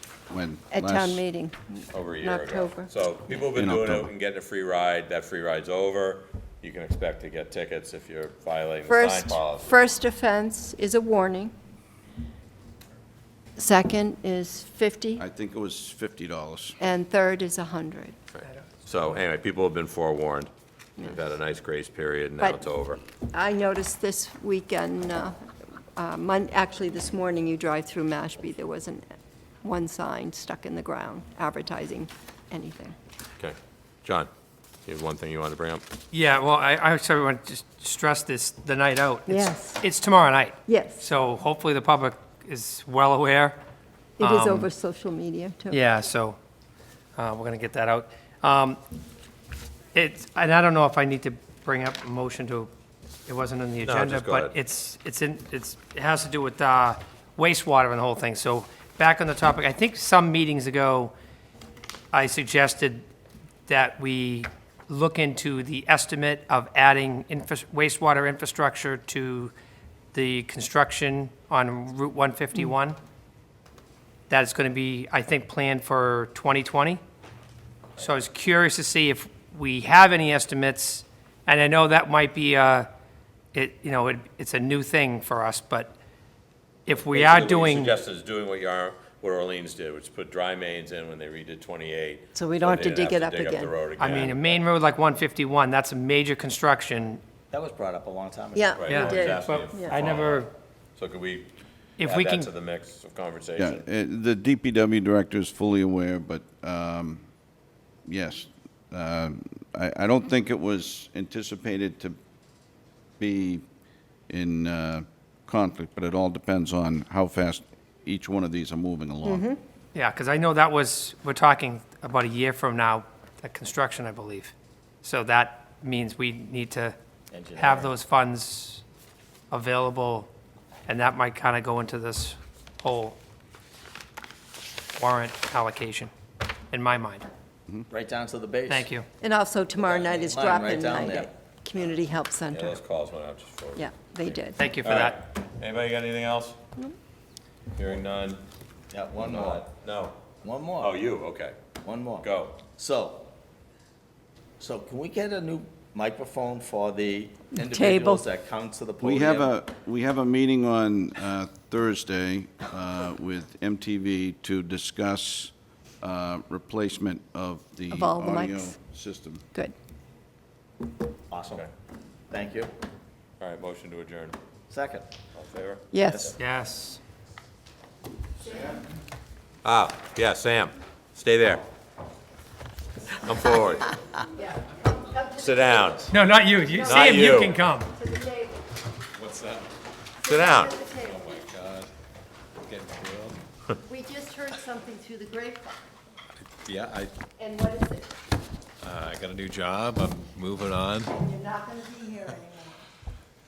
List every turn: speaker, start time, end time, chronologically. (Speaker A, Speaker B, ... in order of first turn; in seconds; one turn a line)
Speaker A: 0.3-1.2
Speaker B: 0.7-1.6
Speaker C: 1.9-9.7
Speaker B: 2.2-2.9
Speaker A: 3.5-4.1
Speaker B: 8.9-11.5
Speaker B: 13.6-15.2
Speaker A: 15.2-16.8
Speaker B: 16.8-18.2
Speaker C: 18.3-23.0
Speaker D: 18.4-18.8
Speaker B: 23.3-25.4
Speaker B: 25.9-29.1
Speaker B: 29.6-33.0
Speaker C: 33.4-34.3
Speaker C: 34.9-35.8
Speaker D: 36.1-43.6
Speaker B: 39.3-39.8
Speaker B: 40.6-41.0
Speaker B: 44.2-45.8
Speaker D: 44.2-44.7
Speaker D: 45.7-46.4
Speaker D: 47.2-48.8
Speaker D: 49.9-52.7
Speaker D: 53.3-61.1
Speaker C: 53.8-54.5
Speaker D: 62.1-63.0
Speaker D: 63.7-69.5
Speaker D: 70.1-73.0
Speaker D: 74.3-77.0
Speaker D: 78.0-82.9
Speaker D: 83.5-85.9
Speaker D: 86.9-87.9
Speaker C: 87.1-94.6
Speaker B: 92.3-93.8
Speaker D: 94.0-97.2
Speaker E: 97.5-98.9
Speaker B: 98.5-100.1
Speaker C: 98.8-100.5
Speaker D: 98.9-100.5
Speaker C: 101.0-101.5
Speaker D: 102.0-102.5
Speaker C: 102.0-103.8
Speaker A: 103.6-107.3
Speaker A: 108.1-112.2
Speaker A: 113.2-113.7
Speaker A: 114.3-119.5
Speaker B: 119.2-119.6
Speaker D: 120.0-127.0
Speaker E: 127.3-127.9
Speaker D: 127.5-128.8
Speaker D: 129.5-130.3
Speaker D: 130.9-133.2
Speaker D: 135.0-136.1
Speaker D: 136.7-137.3
Speaker E: 137.9-138.9
Speaker D: 138.7-139.1
Speaker B: 139.2-142.8
Speaker E: 139.8-141.3
Speaker C: 142.5-146.6
Speaker B: 143.8-144.7
Speaker D: 144.6-145.2
Speaker C: 147.7-148.4
Speaker E: 148.9-149.7
Speaker C: 149.2-150.2
Speaker E: 150.4-150.9
Speaker C: 150.8-151.6
Speaker E: 151.8-153.3
Speaker C: 152.2-152.6
Speaker E: 154.6-159.5
Speaker B: 157.6-158.2
Speaker A: 159.0-169.5
Speaker B: 167.9-168.7
Speaker E: 171.3-171.7
Speaker E: 172.3-172.7
Speaker C: 173.4-174.4
Speaker E: 174.7-175.1
Speaker C: 175.3-176.3
Speaker B: 175.9-176.3
Speaker D: 176.4-177.0
Speaker B: 178.4-178.8
Speaker C: 179.6-181.6
Speaker C: 183.2-183.9
Speaker B: 184.3-188.6
Speaker C: 185.4-186.2
Speaker D: 186.1-187.9
Speaker C: 186.8-187.6
Speaker F: 189.2-189.7
Speaker C: 190.3-190.7
Speaker B: 190.3-191.4
Speaker F: 191.0-191.9
Speaker F: 192.6-193.4
Speaker B: 193.9-195.9
Speaker F: 196.5-197.1
Speaker B: 197.4-198.1
Speaker F: 198.8-201.1
Speaker B: 201.1-202.8